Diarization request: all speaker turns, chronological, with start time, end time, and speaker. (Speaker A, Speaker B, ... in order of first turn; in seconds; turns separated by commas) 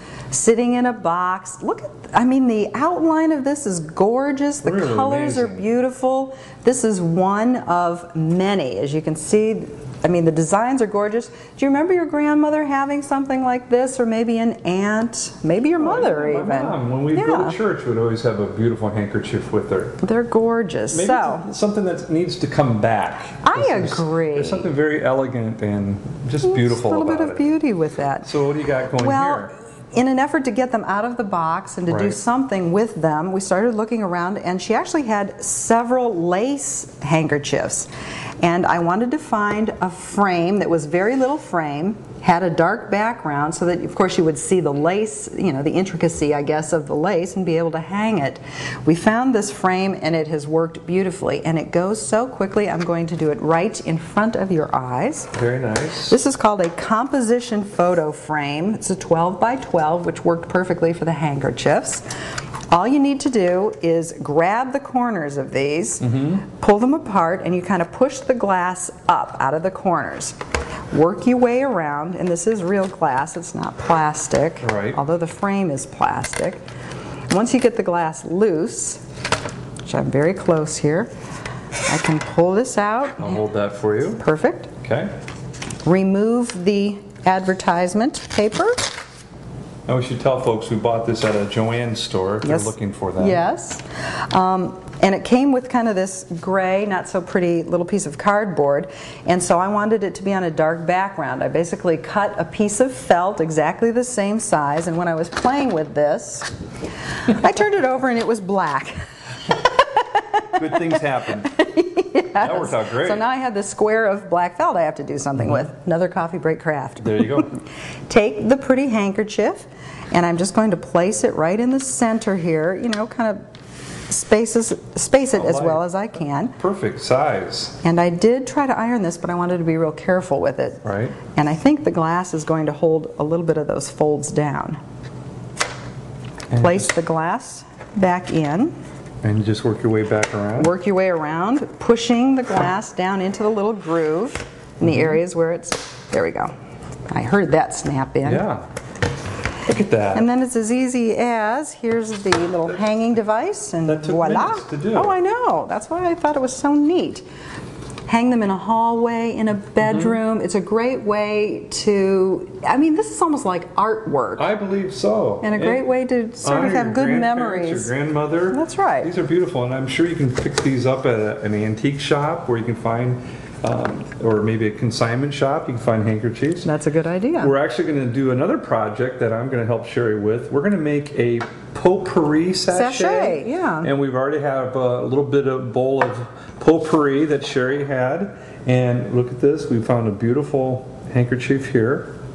Speaker A: 0.3-17.6, Speaker B: 4.6-5.6, Speaker B: 15.8-20.0, Speaker A: 20.0-21.5, Speaker B: 20.9-27.4, Speaker A: 23.4-24.7, Speaker A: 26.4-28.3, Speaker B: 28.2-29.5, Speaker A: 28.9-37.9, Speaker B: 31.9-32.2, Speaker A: 38.4-55.3, Speaker B: 55.3-56.1, Speaker A: 56.1-62.0, Speaker A: 62.7-70.4, Speaker B: 66.0-66.4, Speaker A: 70.9-76.6, Speaker B: 74.6-75.0, Speaker A: 77.3-79.0, Speaker A: 79.8-81.1, Speaker A: 81.9-83.4, Speaker B: 83.2-84.2, Speaker A: 84.2-84.7, Speaker B: 84.8-85.1, Speaker A: 85.8-88.9, Speaker B: 89.8-93.4, Speaker A: 92.4-106.5, Speaker A: 107.2-123.4, Speaker B: 110.6-111.5, Speaker B: 112.4-113.2, Speaker B: 117.0-117.5, Speaker A: 124.1-126.6, Speaker B: 125.3-125.9, Speaker B: 126.5-127.8, Speaker A: 127.8-134.8, Speaker B: 130.8-131.2, Speaker B: 136.5-136.9, Speaker A: 136.6-138.8, Speaker B: 139.2-140.7, Speaker A: 140.6-146.5, Speaker B: 144.8-145.2, Speaker A: 147.1-148.4, Speaker B: 148.2-148.7, Speaker B: 149.7-150.3, Speaker A: 150.1-157.2, Speaker B: 153.9-155.2, Speaker A: 158.1-164.5, Speaker B: 159.8-160.2, Speaker B: 164.4-165.9, Speaker A: 165.4-167.9, Speaker B: 166.4-176.7, Speaker A: 168.5-169.1, Speaker A: 176.6-177.5, Speaker B: 177.4-192.1, Speaker A: 182.7-183.9